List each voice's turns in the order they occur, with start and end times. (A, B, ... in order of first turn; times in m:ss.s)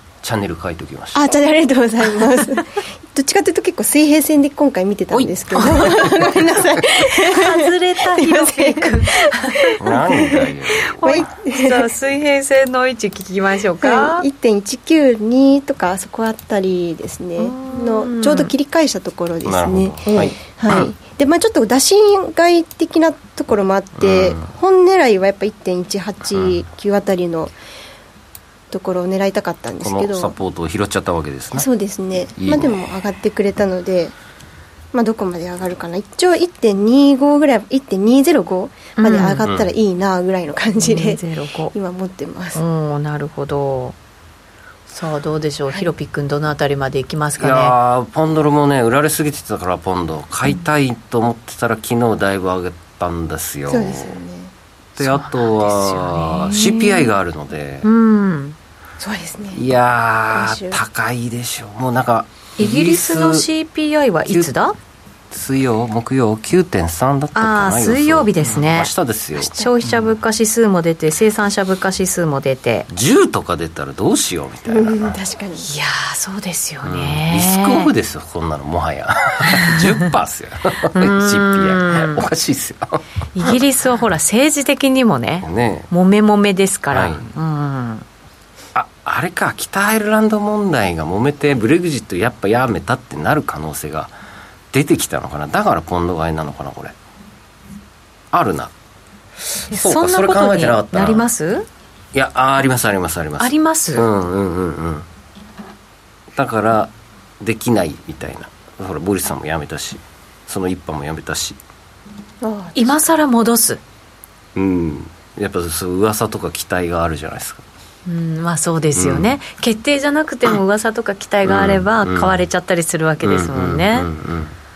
0:00.2-0:01.2 A
0:01.1-0:11.9 B
0:05.1-0:06.1 A
0:05.6-0:05.9 C
0:07.1-0:09.8 C
0:09.8-0:11.3 A
0:11.0-0:14.3 C
0:13.8-0:27.5 B
0:17.4-0:18.5 C
0:19.4-0:20.9 A
0:24.0-0:24.5 A
0:28.7-0:30.3 B
0:29.8-0:31.7 A
0:31.5-0:34.1 B
0:32.4-0:32.8 A
0:34.9-0:42.6 B
0:39.0-0:39.5 C
0:39.4-0:39.7 A
0:40.8-0:41.7 C
0:42.6-0:44.0 C
0:44.9-0:47.7 C
0:47.4-0:54.2 A
0:53.7-0:54.5 B
0:55.0-0:57.9 A
0:55.0-0:57.1 C
0:57.8-0:58.6 C
0:59.0-0:59.7 B
0:59.5-1:03.5 A
1:00.3-1:00.8 B
1:02.6-1:04.8 C
1:05.3-1:09.5 A
1:07.4-1:12.9 C
1:12.9-1:15.2 A
1:14.7-1:15.7 B
1:15.6-1:17.9 C
1:16.8-1:23.0 A
1:20.9-1:22.2 C
1:23.4-1:28.0 C
1:25.4-1:25.9 A
1:26.9-1:27.2 A
1:28.8-1:34.1 A
1:34.7-1:36.9 A
1:38.3-1:38.7 A
1:39.6-1:41.3 A
1:39.7-1:41.7 C
1:42.1-1:45.1 A
1:43.4-1:44.0 C
1:46.4-1:51.6 A
1:52.4-1:52.9 B
1:52.8-1:53.8 C
1:54.6-1:57.6 A
1:58.1-2:04.1 C
1:59.0-1:59.4 A
2:01.4-2:02.4 A
2:03.2-2:04.6 A